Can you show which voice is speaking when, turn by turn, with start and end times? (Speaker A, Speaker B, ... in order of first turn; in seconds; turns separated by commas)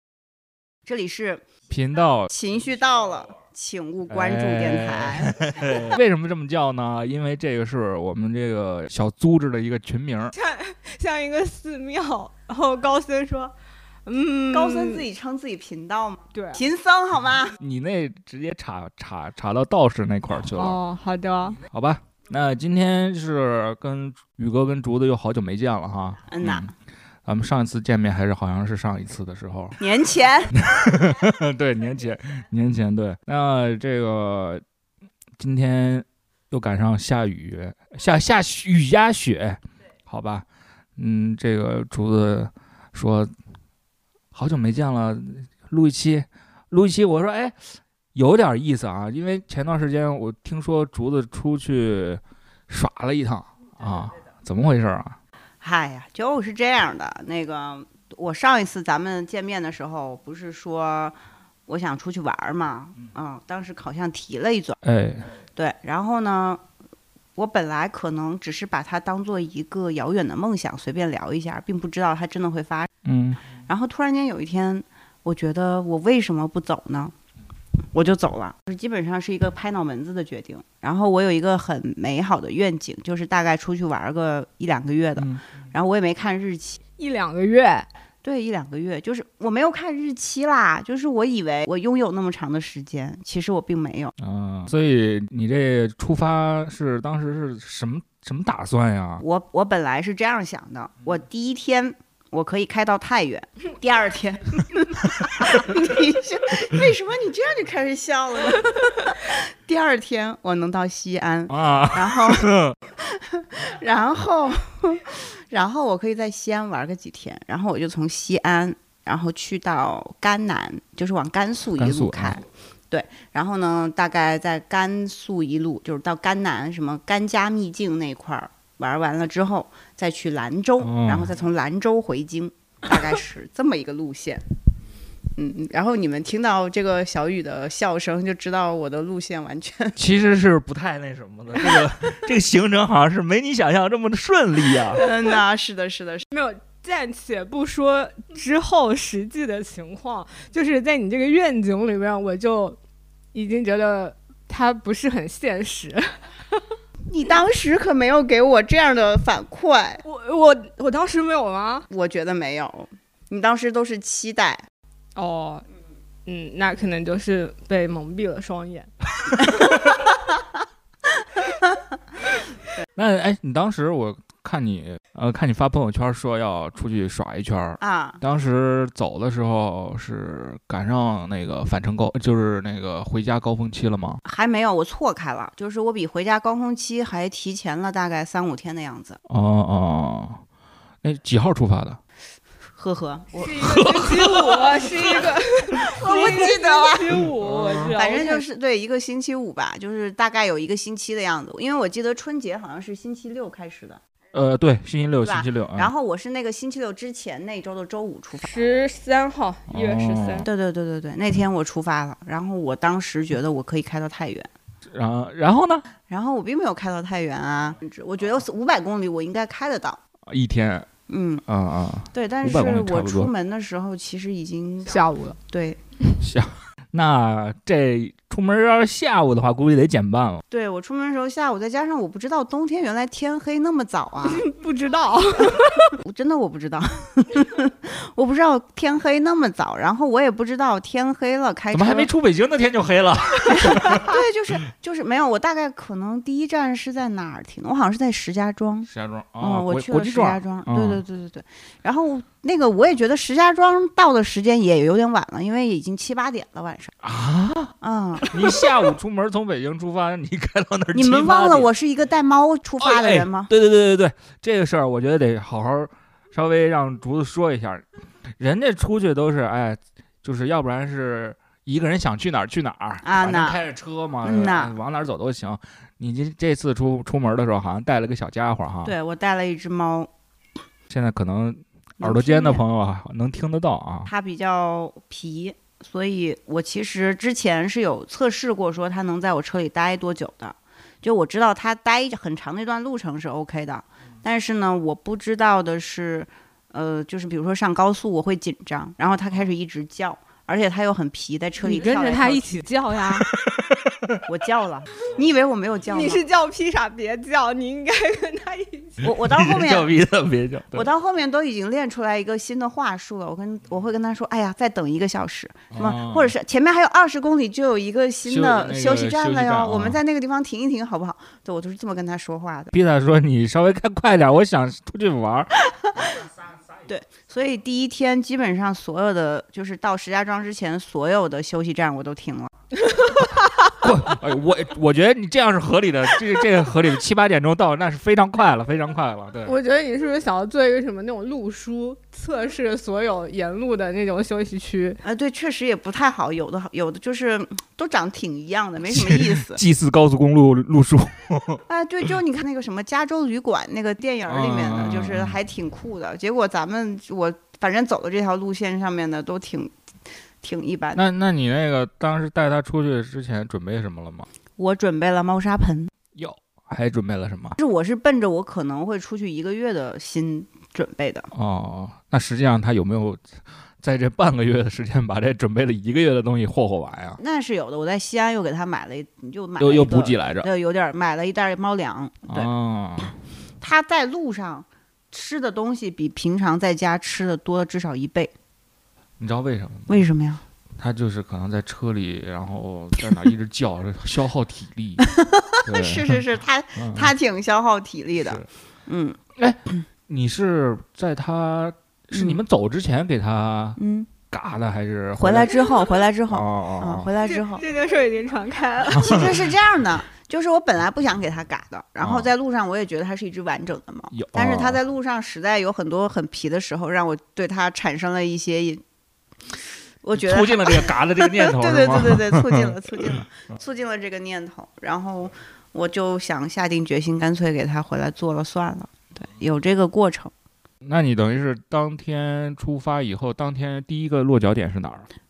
Speaker A: 0.8-1.4, Speaker B: 1.7-2.3, Speaker A: 2.3-5.8, Speaker B: 4.1-10.3, Speaker C: 10.3-13.5, Speaker C: 14.1-15.1, Speaker A: 14.5-17.6, Speaker C: 16.3-16.6, Speaker B: 17.6-20.8, Speaker C: 20.5-21.6, Speaker B: 21.7-26.7, Speaker A: 26.3-26.7, Speaker B: 27.2-29.8, Speaker A: 29.8-30.5, Speaker B: 30.5-34.6, Speaker B: 35.4-40.5, Speaker B: 41.0-43.3, Speaker B: 44.3-47.5, Speaker B: 48.1-55.2, Speaker A: 55.6-61.1, Speaker A: 61.7-64.8, Speaker B: 64.8-65.3, Speaker A: 65.5-66.6, Speaker A: 67.3-72.9, Speaker B: 73.0-73.4, Speaker A: 73.6-77.1, Speaker A: 77.9-86.8, Speaker B: 85.2-85.4, Speaker C: 87.0-87.9, Speaker A: 88.2-94.1, Speaker B: 94.2-99.2, Speaker A: 99.2-134.4, Speaker B: 111.5-112.8, Speaker B: 121.8-122.4, Speaker B: 130.8-131.3, Speaker A: 135.3-140.0, Speaker B: 139.9-145.0, Speaker A: 144.9-146.3, Speaker C: 146.3-152.8, Speaker C: 153.3-156.6, Speaker A: 157.1-160.0, Speaker C: 160.0-161.9, Speaker A: 161.9-164.6, Speaker C: 165.2-165.6, Speaker C: 166.2-168.9, Speaker B: 169.4-169.8, Speaker A: 171.4-171.8, Speaker B: 172.9-184.2, Speaker A: 177.8-178.2, Speaker A: 184.2-189.2, Speaker B: 189.3-190.4, Speaker B: 191.0-192.0, Speaker A: 192.8-193.7, Speaker C: 193.3-198.4, Speaker B: 193.6-194.8, Speaker A: 196.0-197.2, Speaker B: 196.1-196.4, Speaker B: 197.2-197.9, Speaker A: 197.9-204.0, Speaker B: 204.3-205.9, Speaker A: 205.2-208.6, Speaker C: 208.4-210.5, Speaker B: 209.7-210.5, Speaker A: 210.4-214.5, Speaker B: 214.9-215.8, Speaker A: 216.1-220.0, Speaker B: 220.3-220.9, Speaker A: 221.1-221.4, Speaker B: 221.4-223.3, Speaker A: 222.1-225.8, Speaker C: 224.8-225.4, Speaker B: 226.2-230.4, Speaker A: 230.5-234.4, Speaker C: 234.2-235.9, Speaker A: 235.9-242.1, Speaker B: 241.7-244.2, Speaker A: 243.5-256.9, Speaker B: 248.9-251.0, Speaker B: 257.0-257.7, Speaker A: 257.8-258.7, Speaker B: 258.3-261.7, Speaker A: 260.9-263.5, Speaker B: 262.8-267.9, Speaker B: 268.4-278.9, Speaker A: 273.0-273.6, Speaker A: 274.2-274.7, Speaker A: 278.8-280.1, Speaker B: 280.9-284.1, Speaker A: 282.0-282.6, Speaker A: 284.0-302.4, Speaker C: 301.6-303.3, Speaker B: 303.3-304.2, Speaker A: 304.3-306.2, Speaker C: 305.9-309.1, Speaker A: 309.0-309.9, Speaker B: 309.2-310.9, Speaker A: 310.7-322.7, Speaker B: 315.7-316.3, Speaker B: 318.2-320.0, Speaker B: 322.7-326.2, Speaker A: 326.9-332.5, Speaker B: 333.7-339.6, Speaker C: 339.4-345.0, Speaker A: 345.0-349.6, Speaker B: 348.9-351.6, Speaker A: 351.7-359.7, Speaker B: 354.3-355.4, Speaker A: 360.4-361.0, Speaker B: 360.9-364.3, Speaker A: 364.6-365.9, Speaker B: 366.1-367.6, Speaker A: 367.6-371.3, Speaker B: 371.3-377.2, Speaker A: 377.2-382.5, Speaker B: 379.6-380.5, Speaker B: 382.3-383.2, Speaker A: 383.6-388.3, Speaker B: 389.2-390.0, Speaker A: 389.9-390.4, Speaker B: 390.8-395.1, Speaker A: 395.0-399.2, Speaker B: 395.6-397.1, Speaker B: 398.2-398.5, Speaker B: 399.3-407.1, Speaker A: 402.1-402.4, Speaker A: 403.8-404.1, Speaker A: 405.2-407.6, Speaker C: 407.2-409.3, Speaker A: 408.9-418.8, Speaker B: 412.0-412.3, Speaker B: 414.1-414.8, Speaker A: 419.5-430.3, Speaker B: 420.1-423.5, Speaker B: 430.8-435.1